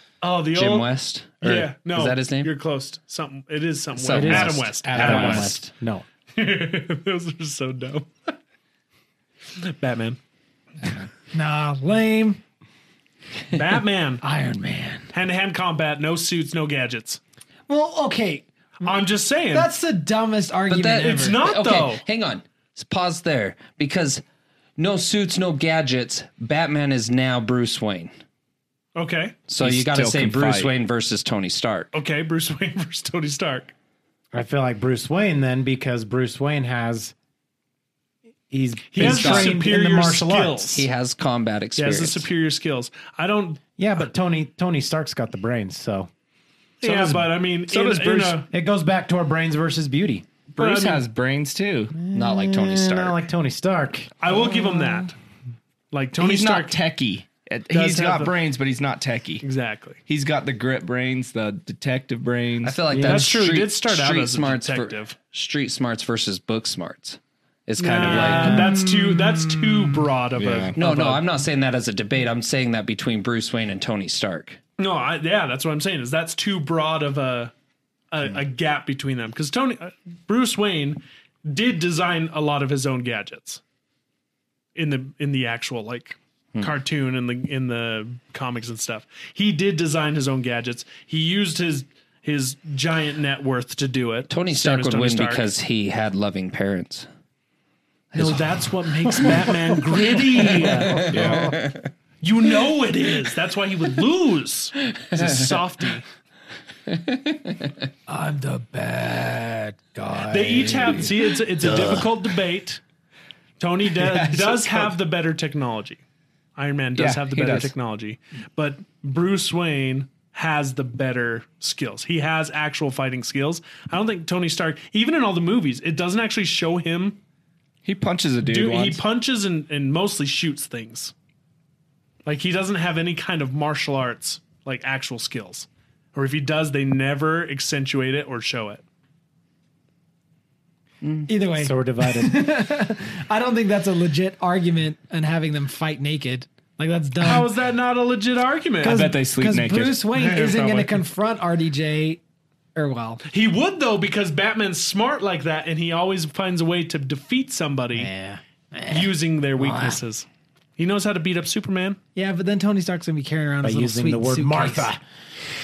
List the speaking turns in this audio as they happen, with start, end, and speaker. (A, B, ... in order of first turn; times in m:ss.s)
0:00.2-0:00.9 A
0:00.5-0:02.5 B
0:01.4-0:05.6 A
0:04.0-0:05.6 B
0:04.1-0:06.0 C
0:04.8-0:05.5 D
0:06.3-0:08.3 A
0:09.6-0:10.2 A
0:11.3-0:12.4 E
0:13.5-0:14.2 A
0:14.2-0:15.1 E
0:15.1-0:17.2 A
0:17.7-0:18.9 E
0:18.8-0:19.7 A
0:19.5-0:21.4 E
0:20.7-0:24.2 B
0:21.0-0:22.0 A
0:24.8-0:28.1 B
0:29.0-0:29.4 A
0:29.5-0:31.9 B
0:29.6-0:30.7 D
0:31.9-0:33.7 A
0:34.3-0:37.1 C
0:38.5-0:40.8 C
0:38.9-0:40.9 A
0:39.0-0:39.6 B
0:40.7-0:42.3 B
0:41.8-0:43.6 A
0:43.8-0:46.1 C
0:46.8-0:48.5 A
0:46.8-0:47.3 C
0:47.7-0:48.4 D
0:48.5-0:50.3 C
0:50.5-0:52.0 D
0:50.6-0:51.0 A
0:51.9-0:54.1 C
0:52.1-0:53.2 B
0:54.2-0:55.1 A
0:54.6-0:55.0 E
0:55.9-0:56.8 A
0:56.2-0:59.4 D
0:57.7-0:58.3 A
0:59.4-1:00.0 A
1:00.1-1:02.8 D
1:02.6-1:08.6 B
1:02.9-1:03.3 C
1:02.9-1:05.2 A
1:07.8-1:11.2 A
1:08.0-1:08.8 C
1:08.4-1:10.1 E
1:10.4-1:10.8 D
1:10.8-1:14.6 B
1:14.8-1:17.5 A
1:18.1-1:23.6 A
1:24.7-1:35.5 A
1:34.3-1:37.1 B
1:38.1-1:40.9 E
1:38.2-1:41.1 A
1:40.8-1:41.9 B
1:41.1-1:41.6 D
1:42.2-1:46.1 A
1:46.9-1:47.7 B
1:48.1-1:51.4 E
1:50.3-1:52.8 A
1:51.6-1:52.0 D
1:53.6-1:56.0 A
1:54.0-1:54.9 D
1:56.6-2:07.2 A
1:57.0-1:57.7 D
2:07.8-2:09.0 D
2:08.4-2:11.1 A
2:12.2-2:18.8 A
2:21.0-2:21.3 B
2:21.3-2:27.5 E
2:21.6-2:22.6 C
2:27.2-2:29.1 A
2:28.8-2:32.2 E
2:28.8-2:30.1 D
2:30.2-2:31.0 A
2:32.7-2:33.2 E
2:33.3-2:38.1 A
2:37.9-2:40.0 E
2:38.9-2:42.0 A
2:42.1-2:44.9 E
2:43.6-2:45.0 C